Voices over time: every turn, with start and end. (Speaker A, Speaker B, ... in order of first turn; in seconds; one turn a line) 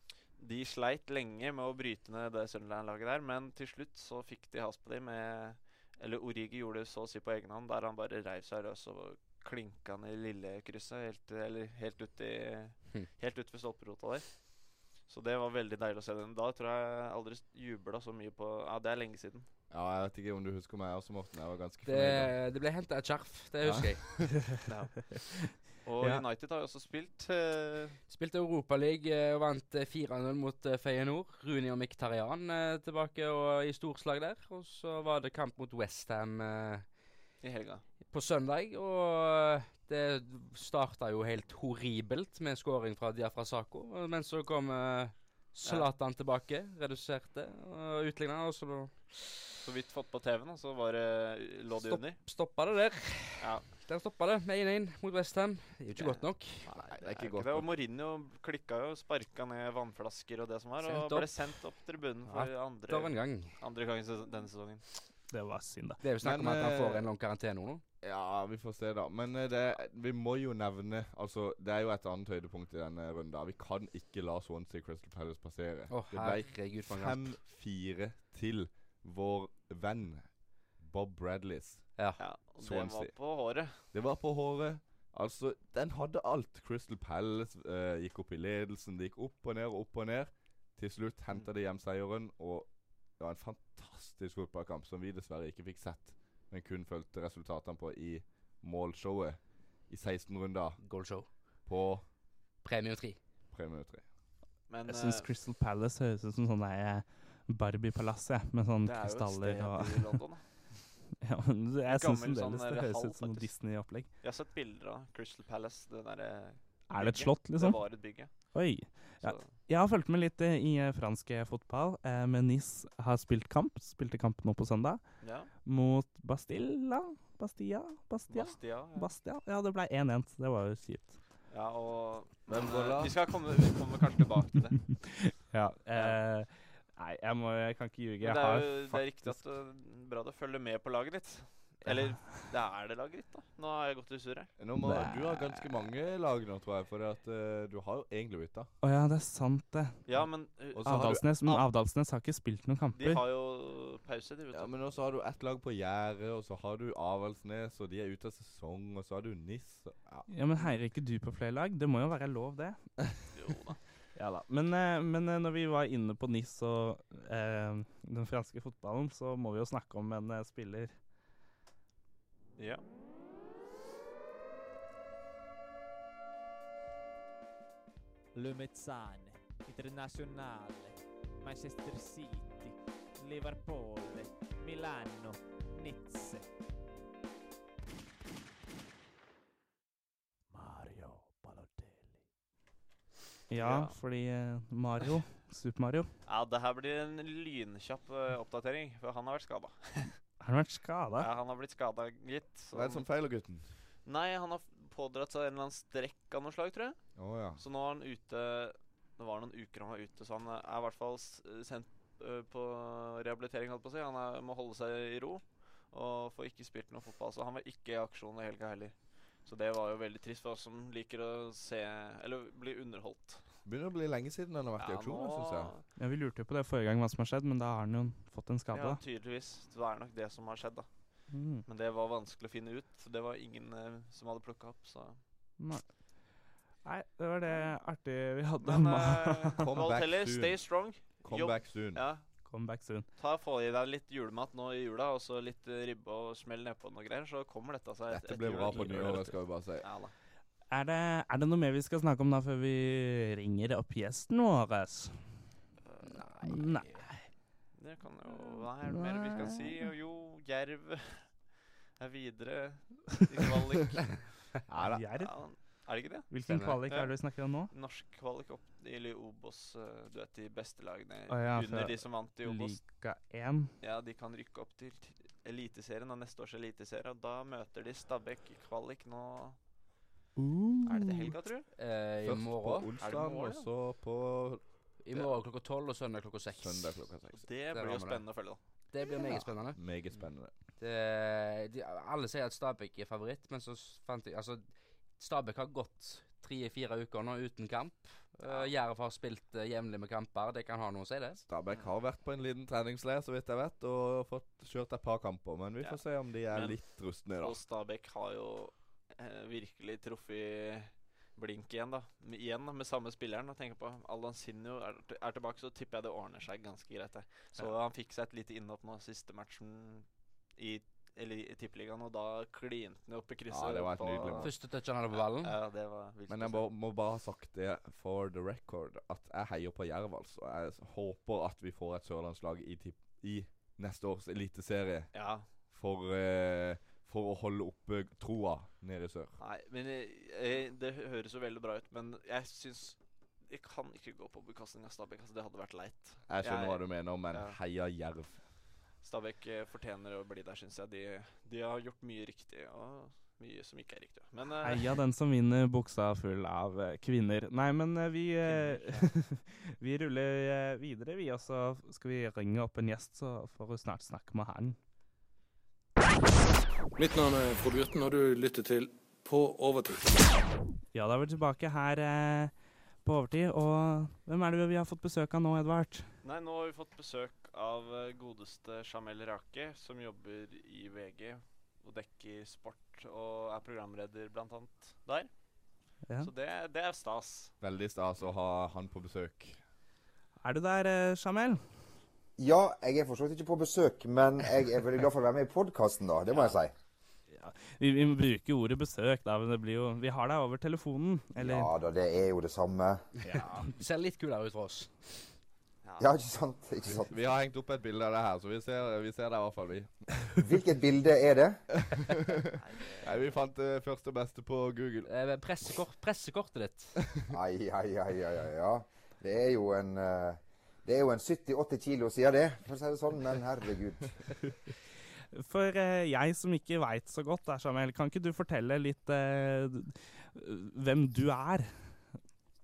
Speaker A: 0.4-19.5
Speaker B: 19.7-22.5
Speaker C: 21.9-24.4
Speaker B: 23.6-24.5
Speaker A: 24.6-28.0
Speaker C: 28.1-37.2
Speaker A: 37.4-37.8
Speaker C: 38.0-49.4
Speaker A: 45.6-45.9
Speaker A: 49.6-52.3
Speaker C: 51.7-56.7
Speaker A: 53.4-53.8
Speaker A: 55.9-64.9
Speaker B: 56.8-57.7
Speaker C: 60.8-61.7
Speaker C: 62.3-63.6
Speaker D: 65.3-66.0
Speaker C: 66.0-67.8
Speaker B: 66.2-67.1
Speaker B: 68.0-102.2
Speaker C: 75.9-77.4
Speaker C: 82.0-82.4
Speaker A: 82.2-83.9
Speaker C: 100.8-101.7
Speaker C: 102.3-103.2
Speaker B: 103.5-104.1
Speaker A: 104.7-105.3
Speaker D: 104.9-110.4
Speaker A: 108.8-110.7
Speaker D: 111.2-114.1
Speaker A: 111.8-119.5
Speaker D: 116.9-131.2
Speaker A: 125.2-125.5
Speaker A: 128.3-129.1
Speaker A: 131.5-135.1
Speaker B: 132.5-133.5
Speaker D: 135.0-139.4
Speaker A: 135.9-136.2
Speaker A: 138.2-144.5
Speaker D: 141.8-142.2
Speaker B: 144.6-148.7
Speaker D: 144.8-145.6
Speaker D: 148.8-153.2
Speaker A: 150.1-151.7
Speaker B: 150.7-151.4
Speaker A: 152.9-155.0
Speaker B: 154.5-160.3
Speaker D: 160.3-163.1
Speaker A: 163.3-163.8
Speaker D: 164.2-171.0
Speaker A: 172.6-172.9
Speaker E: 178.3-186.6
Speaker E: 190.5-192.2
Speaker D: 193.5-196.1
Speaker A: 193.6-194.0
Speaker A: 196.2-200.4
Speaker D: 200.4-201.3
Speaker A: 201.2-203.4
Speaker B: 202.7-203.8
Speaker A: 203.9-223.6
Speaker B: 207.2-207.6
Speaker B: 223.7-225.7
Speaker A: 224.8-225.8
Speaker D: 226.0-229.0
Speaker A: 228.7-235.2
Speaker D: 231.3-231.7
Speaker D: 235.6-239.5
Speaker A: 238.6-242.6
Speaker B: 239.6-242.1
Speaker D: 242.4-243.1
Speaker A: 243.1-250.1
Speaker B: 248.1-249.9
Speaker D: 248.7-249.4
Speaker D: 250.7-255.5
Speaker A: 255.8-256.3
Speaker C: 256.0-257.1
Speaker D: 256.4-257.3
Speaker A: 257.7-264.4
Speaker D: 258.8-259.9
Speaker B: 264.7-265.1
Speaker D: 264.9-267.7
Speaker A: 265.1-266.3
Speaker C: 266.5-266.8
Speaker A: 266.9-272.9
Speaker D: 271.3-273.7
Speaker A: 273.8-279.6
Speaker D: 280.4-281.3
Speaker A: 280.9-281.7
Speaker C: 281.8-282.9
Speaker B: 282.1-285.0
Speaker A: 283.0-283.7
Speaker C: 285.0-287.1
Speaker B: 286.5-287.5
Speaker A: 287.3-288.6
Speaker C: 287.6-301.4
Speaker B: 289.2-290.7
Speaker A: 298.4-298.7
Speaker B: 301.5-307.6
Speaker A: 305.8-326.7
Speaker B: 323.5-324.6
Speaker C: 324.4-325.5
Speaker B: 326.3-339.4
Speaker A: 335.1-335.5
Speaker A: 339.4-347.6
Speaker B: 346.3-348.5
Speaker A: 349.0-355.0
Speaker D: 354.6-364.8
Speaker A: 358.4-359.1
Speaker F: 366.9-370.3
Speaker D: 370.9-376.1
Speaker A: 376.2-387.6
Speaker D: 386.1-386.3
Speaker B: 387.6-389.6
Speaker D: 390.4-391.8
Speaker G: 392.4-396.7
Speaker A: 396.3-396.6
Speaker D: 397.3-401.7
Speaker G: 401.4-403.0
Speaker D: 403.3-403.6
Speaker C: 403.3-405.3
Speaker A: 405.8-406.1
Speaker G: 406.0-407.2
Speaker B: 407.1-410.3
Speaker G: 410.4-411.6
Speaker B: 411.9-415.1
Speaker A: 412.6-413.3
Speaker C: 415.1-417.0
Speaker G: 417.3-424.4
Speaker D: 425.3-432.1